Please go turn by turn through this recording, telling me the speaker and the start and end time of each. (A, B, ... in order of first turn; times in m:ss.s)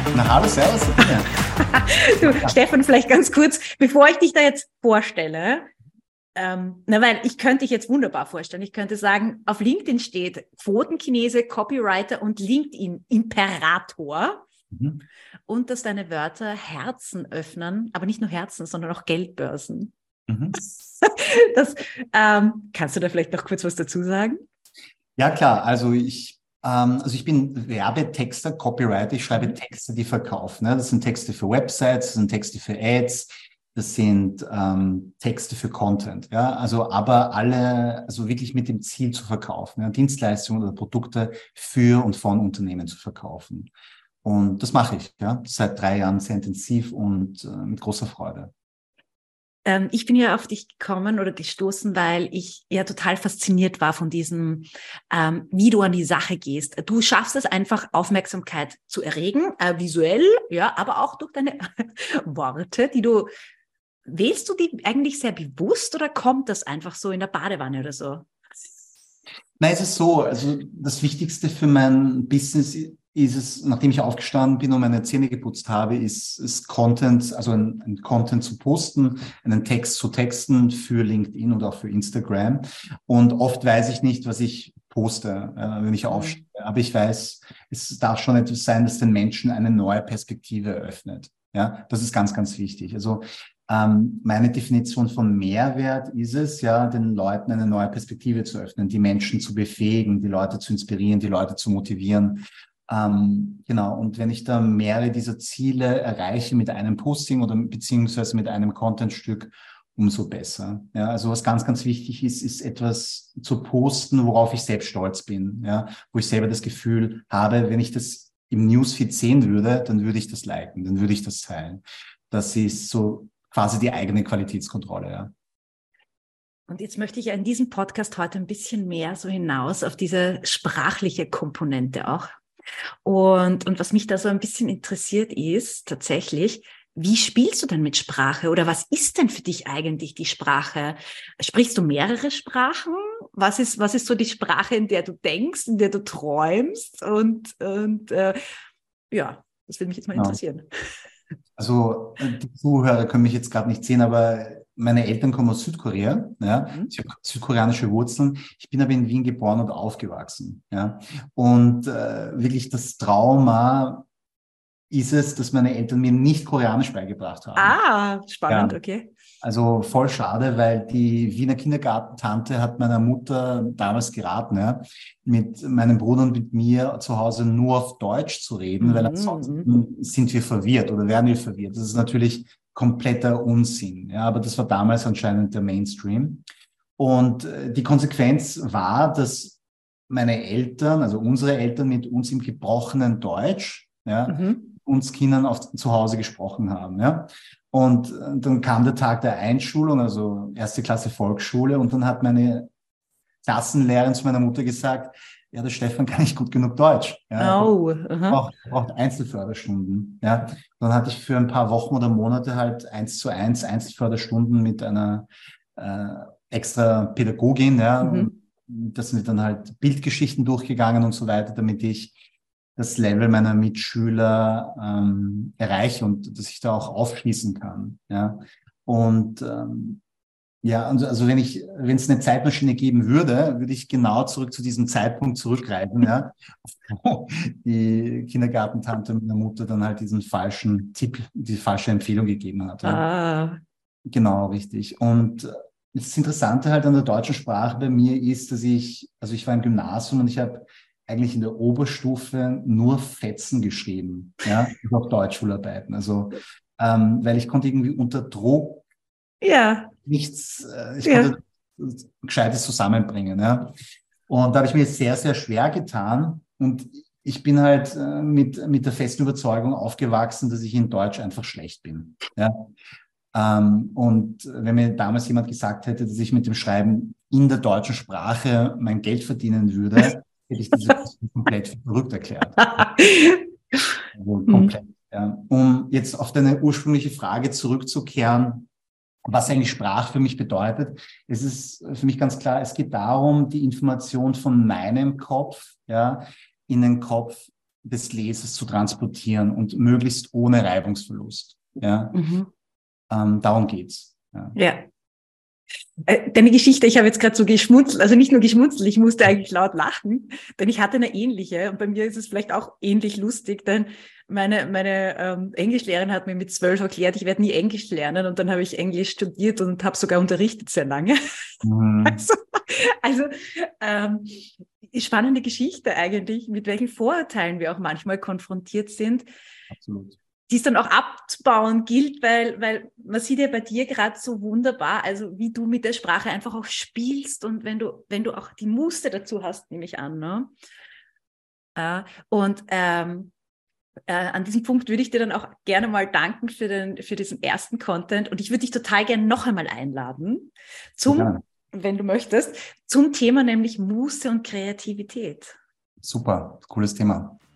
0:00.1-0:01.3 A
0:01.6-0:05.7 B
0:02.2-0:02.6 A
0:06.4-0:14.4 B
0:14.7-0:15.0 A
0:15.5-0:19.9 B
0:20.3-0:20.6 A
0:20.6-0:24.4 B
0:25.2-0:43.7 A
0:44.2-0:48.5 A
0:49.6-1:03.3 B
1:04.1-1:08.3 B
1:09.6-2:05.3 A
1:26.1-1:26.4 B
2:06.7-2:12.3 B
2:13.0-2:28.4 B
2:29.1-2:30.7 B
2:30.1-2:30.4 A
2:31.6-2:44.0 A
2:44.9-2:47.8 A
2:47.6-2:49.1 B
2:48.5-2:48.8 A
2:49.4-3:06.4 A
2:58.8-2:59.7 B
3:07.0-3:22.7 A
3:14.3-3:14.6 B
3:23.4-3:27.7 A
3:27.4-3:28.4 B
3:28.3-3:42.2 A
3:38.0-3:38.3 B
3:42.8-3:50.0 A
3:50.6-4:03.0 A
4:02.8-4:03.6 B
4:04.1-4:18.8 A
4:19.4-4:19.9 B
4:20.0-4:23.7 A
4:21.0-4:21.3 B
4:24.3-4:32.7 A
4:33.3-4:42.9 A
4:42.8-4:43.4 B
4:44.1-4:48.7 A
4:44.5-4:44.7 B
4:49.2-5:02.2 A
5:02.1-5:02.5 B
5:03.1-5:04.6 A
5:04.5-5:04.9 B
5:06.0-5:21.2 B
5:21.6-5:22.2 A
5:22.0-5:29.2 B
5:29.7-5:30.2 A
5:30.5-5:40.5 B
5:41.8-5:43.3 B
5:44.1-5:55.6 B
5:51.1-5:51.4 A
5:56.0-5:57.4 A